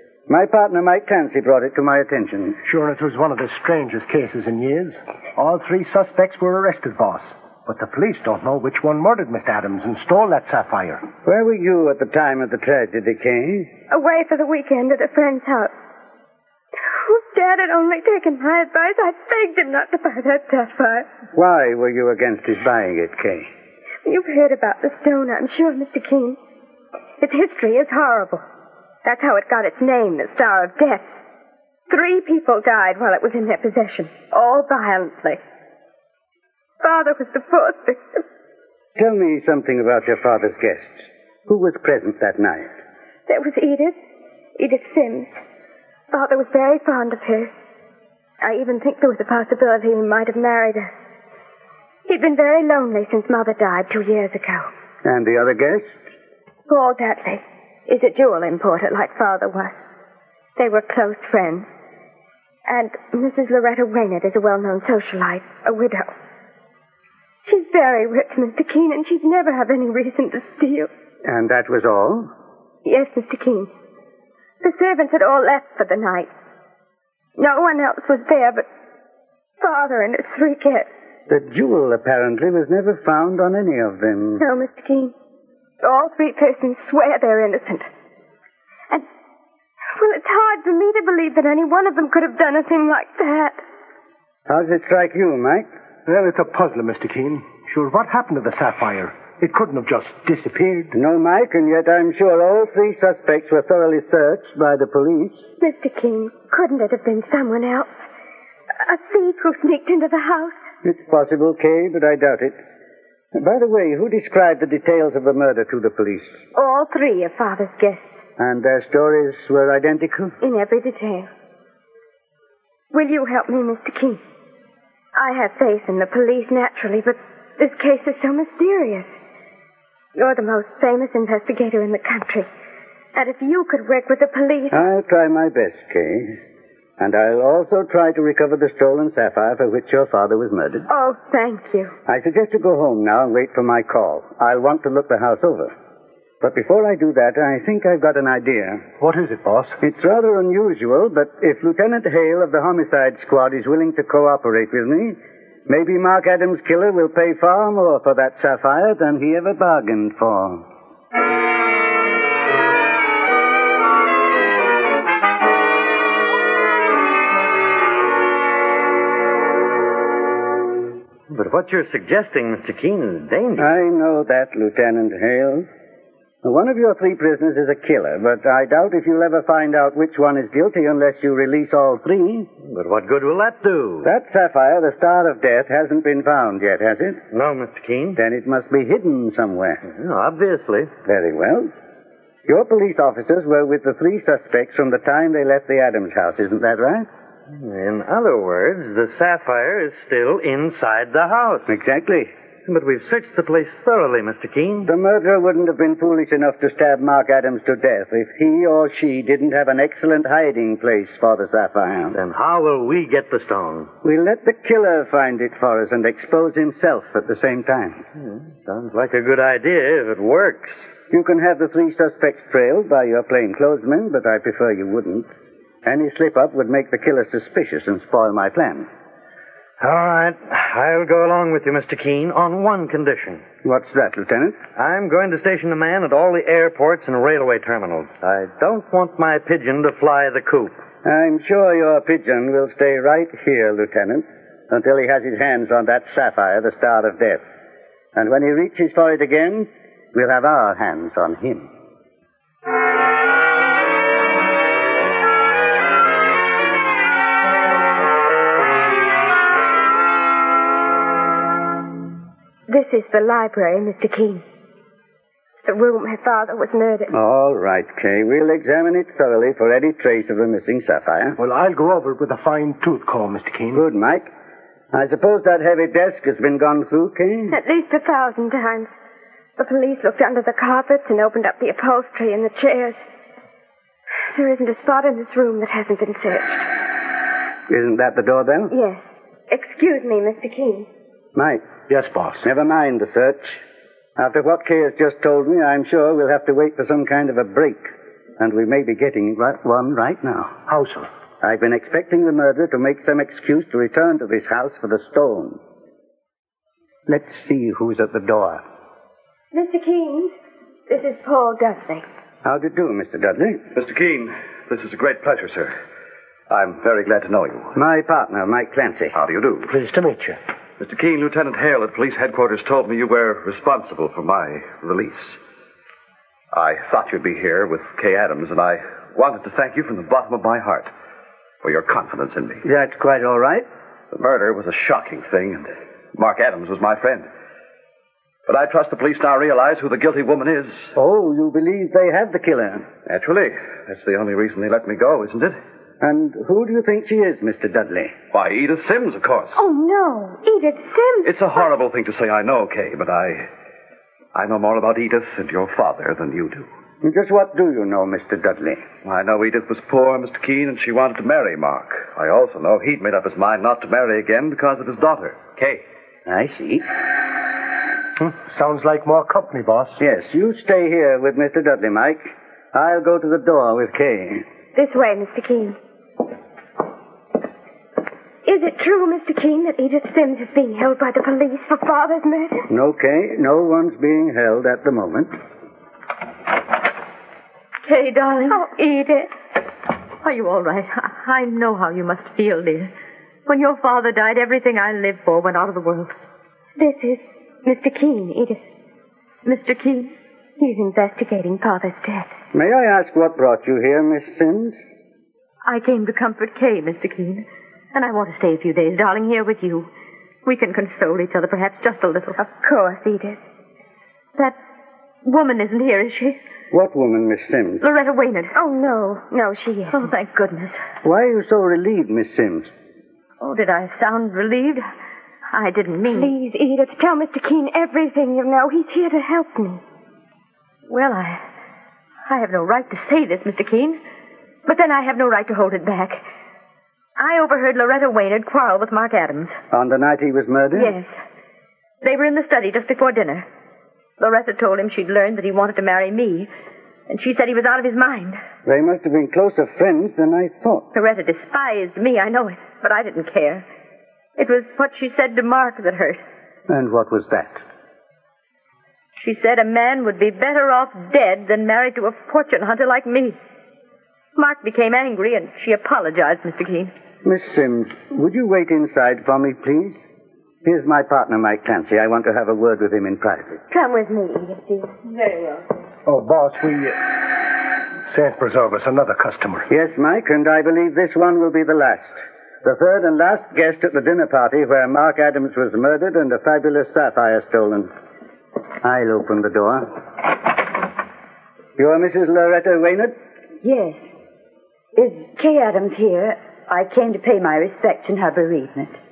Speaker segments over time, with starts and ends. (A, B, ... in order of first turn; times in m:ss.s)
0:00.3-0:02.6 A
0:02.6-0:11.0 B
0:11.2-0:13.7 A
0:13.9-0:15.7 C
0:16.9-0:21.1 C
0:21.3-0:23.5 A
0:24.0-0:26.4 C
0:27.2-0:28.4 C
0:29.0-0:31.1 C
0:31.9-0:35.4 C
0:36.8-0:38.2 C
0:39.0-0:42.7 A
0:43.3-0:44.0 C
0:44.6-0:45.4 C
0:46.1-0:47.5 C
0:48.4-0:50.9 C
0:52.1-0:54.7 C
0:55.0-0:55.9 A
0:56.7-0:59.8 C
1:00.6-1:01.7 C
1:02.7-1:06.1 C
1:07.4-1:10.9 C
1:11.2-1:12.3 A
1:12.8-1:13.7 C
1:14.6-1:16.3 C
1:17.4-1:18.7 C
1:19.6-1:20.9 C
1:21.3-1:24.4 A
1:24.4-1:25.1 C
1:25.8-1:27.9 C
1:30.0-1:33.6 C
1:34.5-1:35.7 A
1:36.0-1:40.9 B
1:40.9-1:45.4 A
1:45.6-1:48.1 C
1:48.8-1:50.7 C
1:50.8-1:52.6 A
1:53.3-1:56.4 A
1:56.5-1:58.2 C
1:58.4-2:00.4 A
2:00.4-2:01.3 C
2:02.9-2:04.2 C
2:05.1-2:09.2 C
2:10.2-2:12.5 C
2:13.1-2:14.8 C
2:14.7-2:16.4 A
2:17.0-2:20.9 A
2:20.9-2:21.9 C
2:22.1-2:25.7 A
2:26.4-2:28.9 A
2:29.0-2:29.8 B
2:29.8-2:40.7 A
2:51.3-2:53.7 D
2:53.6-2:55.7 A
2:56.4-3:02.5 A
3:02.6-3:04.1 D
3:04.0-3:07.2 A
3:07.3-3:08.2 D
3:08.2-3:09.8 A
3:09.8-3:10.9 D
3:11.0-3:11.7 A
3:12.5-3:17.1 A
3:17.5-3:21.7 D
3:21.7-3:22.3 A
3:22.7-3:24.9 D
3:24.8-3:32.2 A
3:32.1-3:33.9 D
3:34.0-3:38.0 A
3:38.2-3:40.8 D
3:41.1-3:45.3 A
3:45.8-3:48.9 A
3:49.8-3:53.4 D
3:53.6-3:54.6 A
3:54.8-4:00.8 D
4:01.0-4:07.4 A
4:08.1-4:11.7 A
4:22.7-4:24.4 C
4:25.6-4:27.1 C
4:27.1-4:31.4 A
4:31.4-4:33.8 B
4:33.7-4:34.3 A
4:34.9-4:37.6 A
4:37.5-4:39.0 C
4:39.6-4:43.0 C
4:44.3-4:46.7 C
4:47.7-4:48.7 A
4:48.7-4:50.9 C
4:51.4-4:51.6 A
4:51.9-4:52.5 B
4:52.4-4:53.6 A
4:54.2-5:00.5 A
5:00.7-5:01.1 B
5:01.4-5:05.6 A
5:07.1-5:08.6 A
5:09.5-5:10.3 C
5:10.9-5:12.0 C
5:12.4-5:13.6 A
5:13.7-5:15.7 E
5:16.5-5:17.8 E
5:17.7-5:19.1 A
5:19.1-5:19.7 E
5:19.7-5:20.4 B
5:20.8-5:25.4 E
5:26.5-5:30.9 E
5:31.6-5:32.6 E
5:32.6-5:33.7 A
5:34.1-5:37.3 E
5:38.5-5:40.9 E
5:41.0-5:42.9 A
5:43.0-5:45.6 E
5:46.0-5:48.1 A
5:48.3-5:49.6 E
5:49.6-5:51.3 C
5:51.2-5:53.5 E
5:54.3-5:56.7 E
5:57.0-5:58.8 A
5:59.0-6:05.8 E
6:06.3-6:06.9 A
6:08.2-6:10.0 B
6:10.0-6:14.4 A
6:14.7-6:15.8 C
6:18.4-6:22.7 C
6:22.7-6:25.4 A
6:27.8-6:28.6 F
6:28.5-6:29.3 C
6:30.2-6:32.9 F
6:33.4-6:36.1 F
6:36.8-6:38.6 C
6:39.4-6:40.1 F
6:40.6-6:42.3 C
6:42.5-6:44.8 A
6:45.6-6:49.9 F
6:50.4-6:52.4 F
6:52.4-6:53.4 C
6:55.2-6:56.4 F
6:56.7-6:57.8 A
6:57.8-6:58.5 F
6:58.5-7:00.0 C
6:59.9-7:00.8 F
7:01.0-7:02.7 A
7:03.4-7:04.8 F
7:05.5-7:06.3 F
7:06.1-7:09.8 C
7:10.9-7:11.4 F
7:12.2-7:14.0 F
7:14.6-7:16.2 F
7:17.2-7:19.6 F
7:19.7-7:20.9 A
7:20.8-7:21.1 F
7:22.0-7:23.5 F
7:24.2-7:26.5 F
7:27.1-7:28.4 F
7:28.6-7:30.9 A
7:30.9-7:33.6 F
7:34.4-7:36.2 F
7:36.7-7:37.6 A
7:39.2-7:43.4 F
7:44.4-7:46.9 F
7:47.2-7:50.0 A
7:50.6-7:53.6 A
7:53.7-7:55.4 C
7:56.0-7:59.7 B
7:59.7-8:02.1 A
8:02.6-8:07.9 A
8:08.8-8:09.9 A
8:11.8-8:13.1 A
8:13.6-8:14.1 G
8:14.9-8:19.0 G